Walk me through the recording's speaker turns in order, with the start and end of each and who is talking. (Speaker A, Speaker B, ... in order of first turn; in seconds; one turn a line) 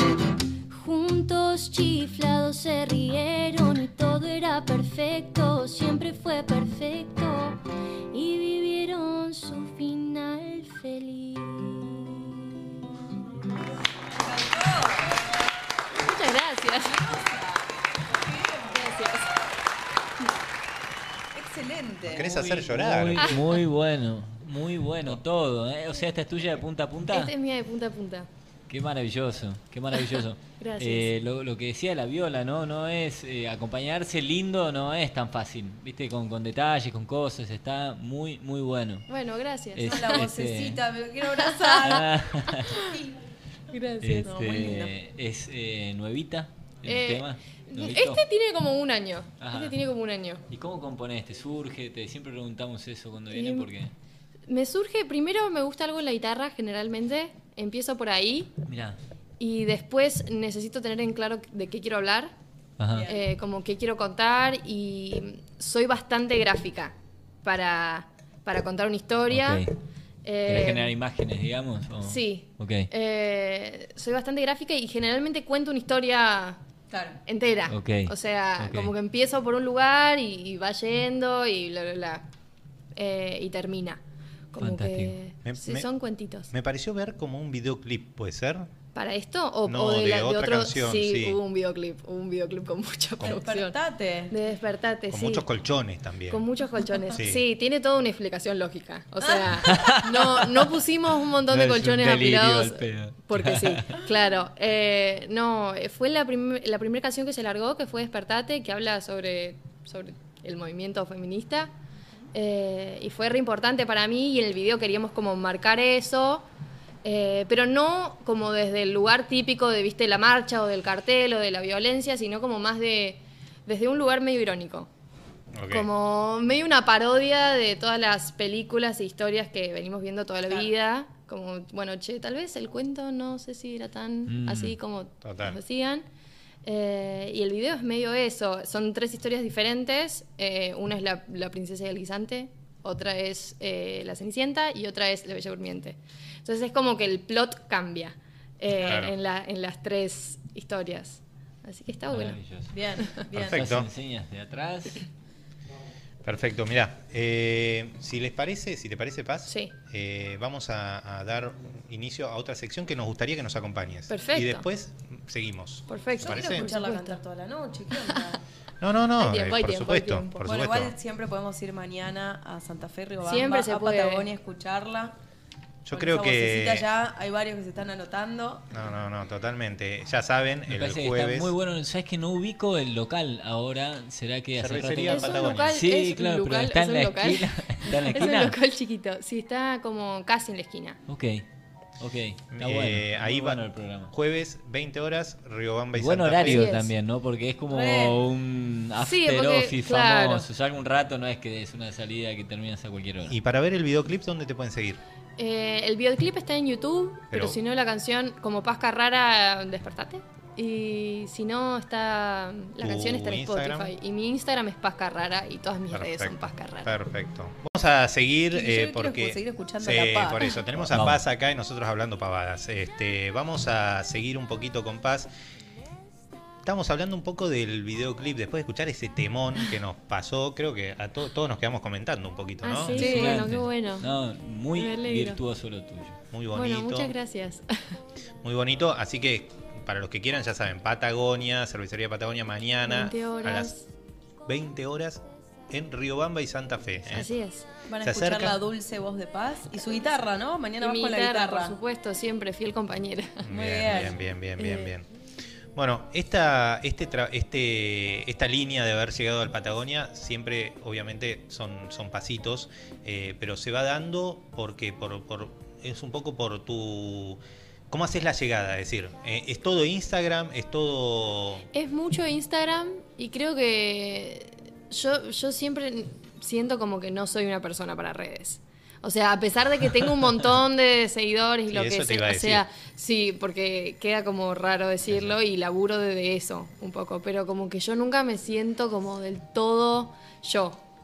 Speaker A: 0.7-12.3
Speaker B: 14.2-15.1
Speaker C: 15.9-17.1
Speaker B: 17.0-18.9
Speaker C: 18.7-19.3
Speaker B: 21.3-22.4
Speaker D: 22.1-23.4
Speaker E: 22.1-27.3
Speaker C: 27.1-28.3
Speaker E: 28.7-39.1
Speaker C: 30.6-31.1
Speaker C: 39.1-40.3
Speaker E: 39.7-40.8
Speaker B: 39.9-42.1
Speaker C: 41.4-42.9
Speaker E: 41.8-42.7
Speaker B: 42.8-43.1
Speaker C: 43.7-44.3
Speaker E: 44.0-48.2
Speaker B: 44.2-44.9
Speaker C: 46.9-50.4
Speaker E: 49.4-49.8
Speaker E: 50.5-53.9
Speaker C: 53.3-53.7
Speaker C: 54.5-58.5
Speaker E: 58.6-59.0
Speaker C: 59.4-62.3
Speaker E: 62.8-63.1
Speaker B: 62.9-63.2
Speaker C: 63.0-69.7
Speaker E: 69.3-69.7
Speaker C: 70.2-70.9
Speaker E: 70.4-72.9
Speaker C: 72.0-76.6
Speaker B: 76.9-77.2
Speaker C: 77.3-82.2
Speaker E: 77.7-78.9
Speaker C: 82.9-84.0
Speaker C: 84.5-86.5
Speaker E: 84.6-85.1
Speaker D: 85.4-85.9
Speaker D: 86.5-88.7
Speaker C: 88.9-93.8
Speaker D: 89.7-91.4
Speaker B: 93.2-94.3
Speaker C: 94.3-95.5
Speaker D: 95.1-96.4
Speaker C: 96.3-111.7
Speaker D: 97.2-97.4
Speaker B: 99.2-99.9
Speaker E: 99.6-100.7
Speaker E: 101.5-103.9
Speaker C: 112.3-116.5
Speaker C: 117.0-124.9
Speaker D: 125.5-125.9
Speaker C: 125.7-136.0
Speaker E: 134.3-134.8
Speaker D: 135.2-135.6
Speaker C: 136.6-152.4
Speaker D: 148.8-149.1
Speaker E: 152.1-155.0
Speaker B: 152.7-153.6
Speaker D: 153.3-153.9
Speaker D: 156.2-166.7
Speaker C: 159.5-159.7
Speaker C: 164.1-164.6
Speaker C: 165.9-167.2
Speaker B: 166.2-168.4
Speaker D: 168.8-170.9
Speaker C: 169.2-170.4
Speaker B: 170.4-175.1
Speaker C: 173.2-174.3
Speaker D: 175.8-176.9
Speaker B: 175.9-178.7
Speaker D: 178.7-181.5
Speaker E: 180.7-188.6
Speaker D: 184.6-185.8
Speaker C: 185.0-191.0
Speaker E: 191.1-191.4
Speaker E: 192.0-194.1
Speaker D: 192.5-196.7
Speaker E: 195.9-203.3
Speaker C: 196.4-196.9
Speaker B: 197.7-198.2
Speaker C: 199.0-200.5
Speaker D: 203.3-205.0
Speaker C: 205.4-216.9
Speaker D: 207.3-207.6
Speaker D: 212.8-213.9
Speaker D: 215.9-225.3
Speaker B: 218.5-220.6
Speaker E: 220.9-221.2
Speaker D: 226.6-233.2
Speaker C: 232.6-234.1
Speaker E: 232.8-236.2
Speaker B: 233.0-233.3
Speaker C: 234.8-235.4
Speaker D: 236.3-237.1
Speaker C: 236.5-238.0
Speaker D: 238.4-243.7
Speaker C: 242.8-243.8
Speaker D: 244.4-247.3
Speaker C: 247.1-247.7
Speaker B: 247.9-251.8
Speaker D: 248.0-248.6
Speaker C: 250.8-253.5
Speaker D: 253.4-255.1
Speaker B: 253.5-254.2
Speaker C: 254.6-254.9
Speaker D: 255.7-271.7
Speaker C: 271.7-290.8
Speaker D: 281.7-282.6